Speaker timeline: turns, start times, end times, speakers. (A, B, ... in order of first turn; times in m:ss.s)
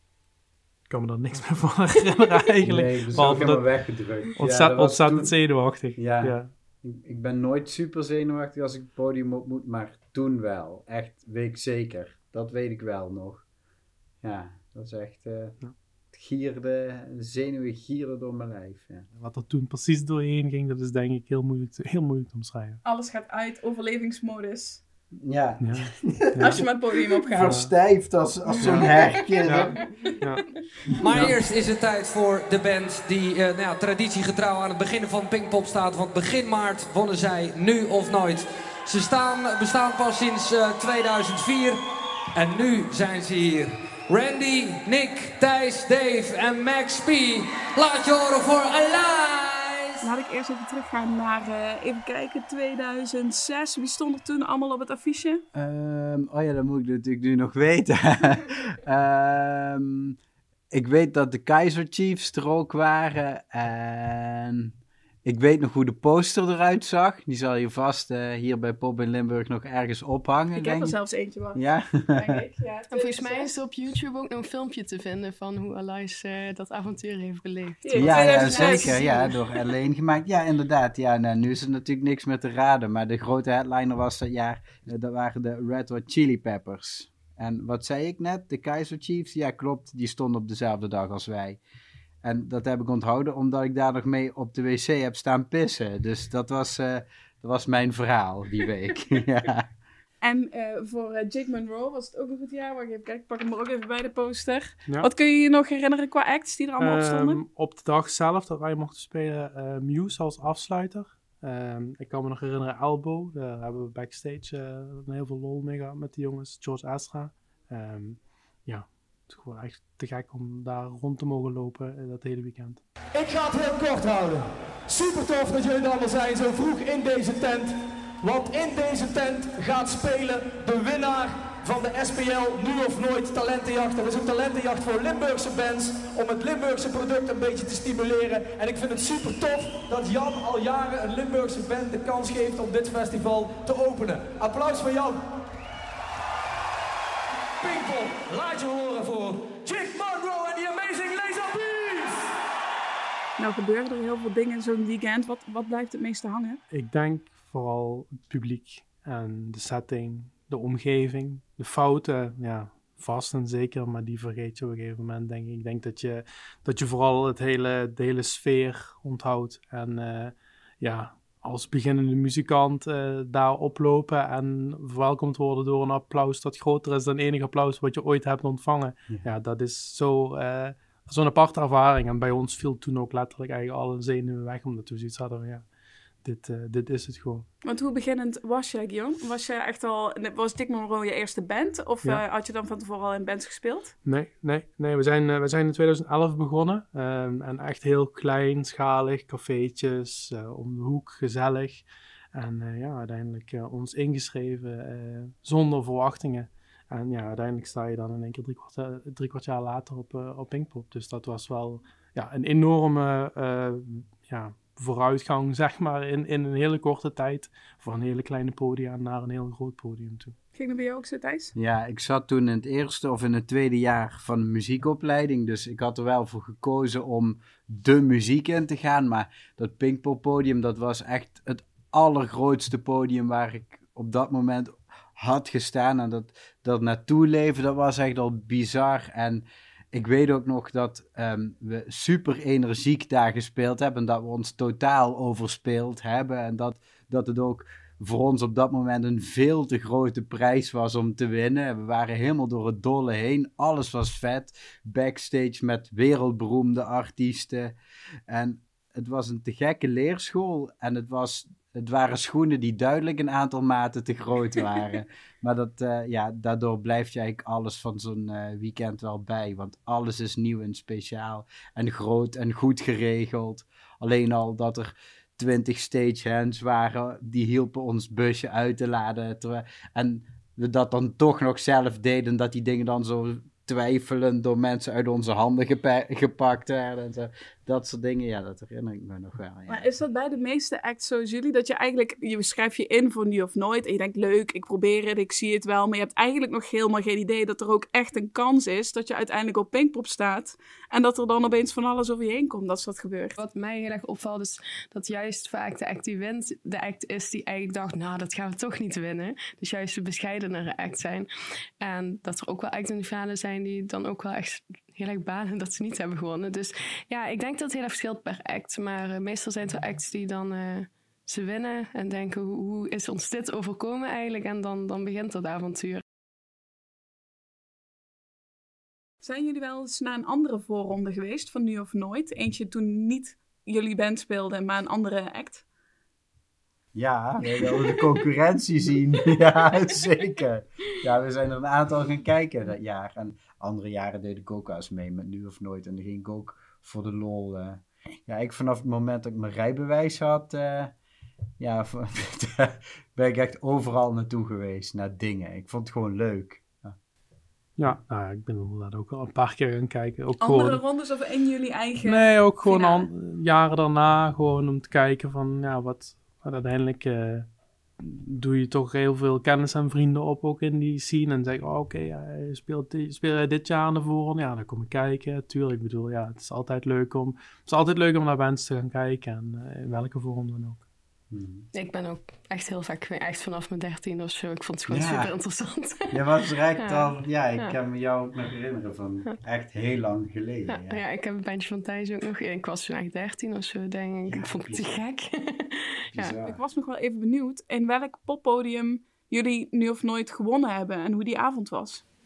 0:00.9-0:03.7 A
0:02.6-0:05.4 B
0:04.4-0:06.5 A
0:05.9-0:13.4 B
0:14.2-0:15.6 B
0:16.1-0:19.0 B
0:19.2-0:22.8 A
0:22.8-0:24.8 C
0:25.2-0:26.7 B
0:25.6-0:26.6 A
0:26.4-0:27.6 C
0:27.3-0:29.7 B
0:27.4-0:27.7 A
0:28.6-0:28.9 A
0:29.4-0:30.4 A
0:31.0-0:41.8 D
0:31.1-0:31.4 A
0:42.3-0:50.0 D
0:50.0-0:55.4 C
0:55.5-1:00.2 B
1:00.7-1:04.7 B
1:05.2-1:11.0 B
1:10.6-1:11.6 C
1:11.5-1:12.3 B
1:12.1-1:13.5 C
1:12.9-1:19.3 E
1:17.8-1:19.2 C
1:17.9-1:31.6 B
1:32.2-1:39.7 B
1:40.2-1:47.4 C
1:46.8-2:02.8 A
2:03.1-2:25.3 F
2:27.6-2:32.4 F
2:33.4-2:36.6 C
2:36.7-3:05.6 A
3:06.2-3:07.5 A
3:07.6-3:13.9 C
3:14.0-3:40.3 A
3:40.5-3:41.5 C
3:41.6-4:17.7 B
4:18.3-4:49.8 B
4:49.7-5:03.4 C
5:03.4-5:11.3 E
5:11.8-5:26.0 E
5:29.2-5:35.6 C
5:36.9-5:50.9 B
5:51.6-5:56.9 B
5:57.8-6:00.8 A
6:00.4-6:03.1 C
6:02.0-6:07.5 A
6:08.0-6:20.8 A
6:21.3-6:21.7 B
6:21.7-6:26.2 E
6:24.9-6:25.3 B
6:26.1-6:31.0 B
6:26.8-6:27.8 E
6:30.7-6:36.4 E
6:34.3-6:34.8 B
6:36.1-6:36.6 B
6:36.4-6:42.0 C